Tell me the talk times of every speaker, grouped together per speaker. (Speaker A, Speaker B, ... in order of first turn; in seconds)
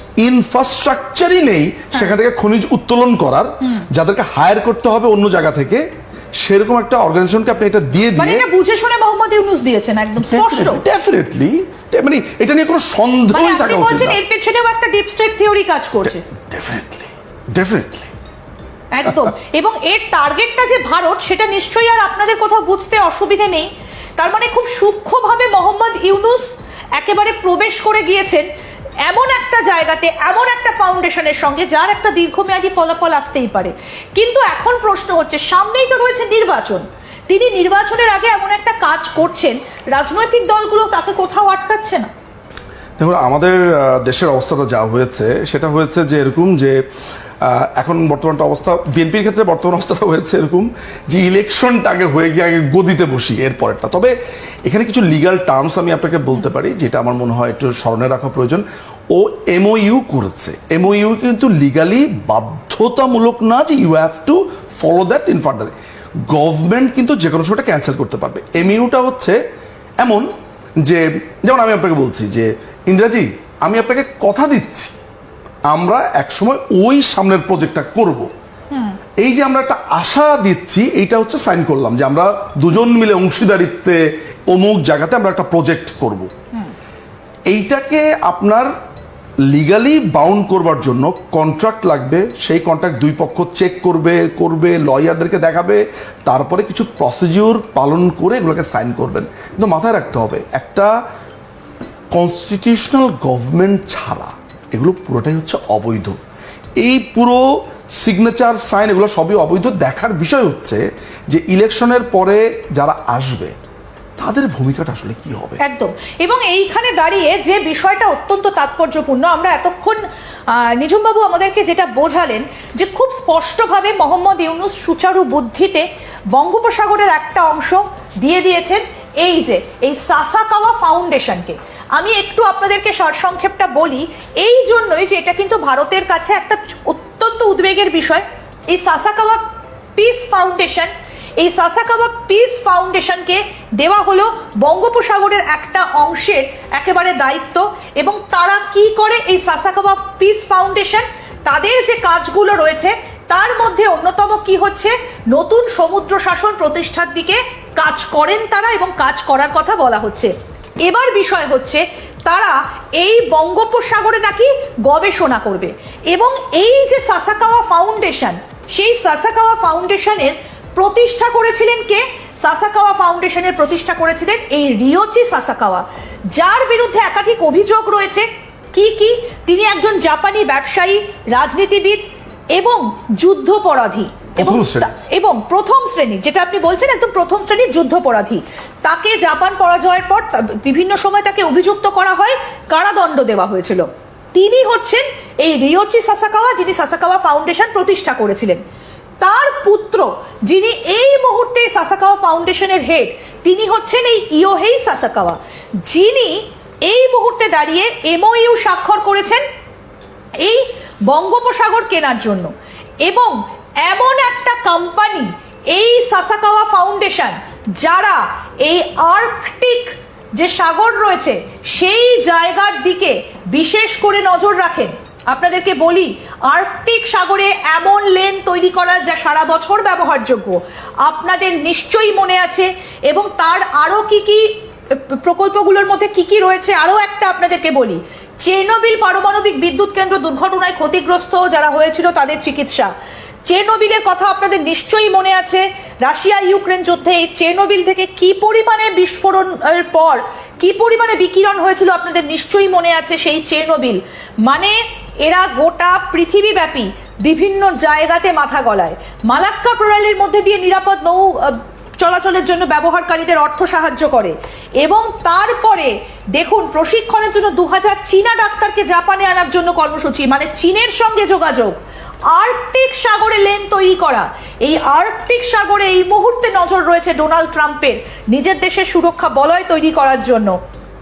Speaker A: 0.2-5.8, 6.4-8.4, 10.2-14.2, 16.1-18.1, 43.0-46.8, 47.4-54.1, 54.6-65.7, 66.3-69.4, 70.0-70.3, 70.8-74.9, 75.7-78.3, 79.2-86.3, 87.5-88.7, 89.5-100.9, 102.1-106.2, 106.8-113.5, 114.2-115.6, 184.3-185.0
Speaker B: 8.2-10.8, 13.3-16.2, 18.9-28.4, 29.0-42.1, 78.7-79.0, 115.6-139.4, 139.9-182.0, 182.5-198.6, 199.2-209.4, 210.4-212.5, 213.0-242.9, 243.5-271.8, 272.3-280.6